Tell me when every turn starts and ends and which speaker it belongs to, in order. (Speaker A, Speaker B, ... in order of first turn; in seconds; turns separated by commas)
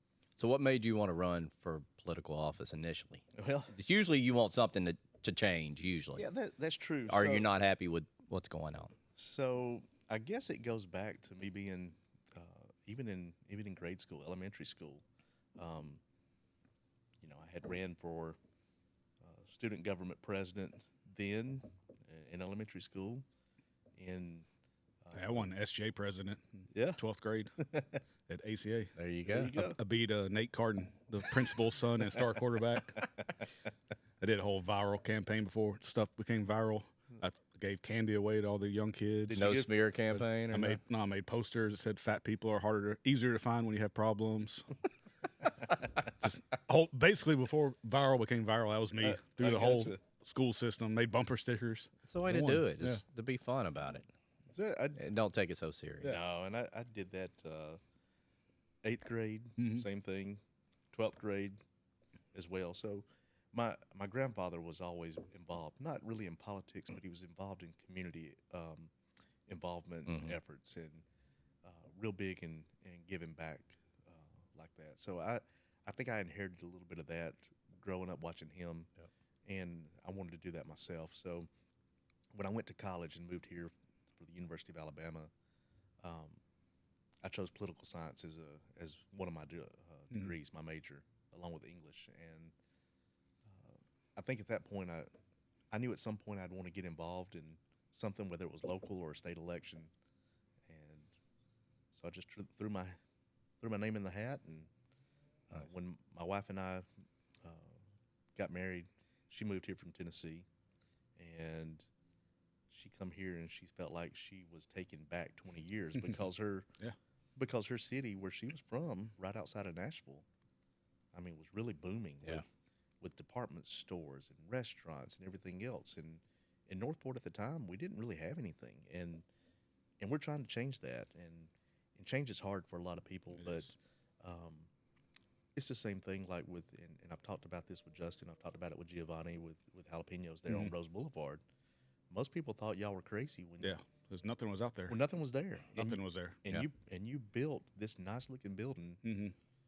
Speaker A: 0.4-6.2, Speaker B: 3.3-3.8, Speaker B: 6.2-7.5, Speaker A: 7.1-8.9, Speaker B: 9.2-15.0, Speaker B: 15.6-16.0, Speaker B: 17.2-18.4, Speaker B: 19.2-23.2, Speaker B: 24.0-24.5, Speaker B: 25.0-25.5, Speaker C: 25.1-27.5, Speaker B: 26.7-27.0, Speaker B: 27.6-28.0, Speaker C: 28.3-28.9, Speaker A: 29.0-29.6, Speaker B: 29.3-29.8, Speaker C: 29.6-33.1, Speaker C: 34.2-39.5, Speaker B: 39.3-39.8, Speaker A: 39.3-40.8, Speaker C: 40.5-44.7, Speaker C: 46.1-53.0, Speaker B: 49.0-50.0, Speaker A: 52.1-54.1, Speaker B: 54.5-55.0, Speaker A: 55.0-56.2, Speaker B: 56.0-57.8, Speaker B: 58.8-60.4, Speaker C: 59.6-59.9, Speaker B: 60.9-61.6, Speaker B: 62.3-68.9, Speaker B: 69.5-71.0, Speaker A: 70.1-70.4, Speaker B: 71.6-78.9, Speaker B: 79.5-81.5, Speaker B: 82.3-85.3, Speaker B: 86.0-86.4, Speaker B: 87.2-92.5, Speaker B: 93.5-95.1, Speaker B: 95.7-99.9, Speaker B: 100.7-101.1, Speaker B: 101.9-103.0, Speaker B: 103.6-104.7, Speaker B: 105.5-106.9, Speaker B: 107.4-107.8, Speaker B: 108.3-110.5, Speaker B: 111.2-111.8, Speaker B: 112.7-116.7, Speaker B: 117.3-120.3, Speaker B: 121.1-122.5, Speaker B: 123.0-129.2, Speaker B: 130.0-134.7, Speaker C: 133.3-133.7, Speaker B: 135.6-141.4, Speaker C: 140.5-140.7, Speaker B: 142.1-143.8, Speaker C: 143.6-145.0, Speaker B: 144.9-149.0, Speaker C: 145.8-146.4, Speaker C: 149.0-149.3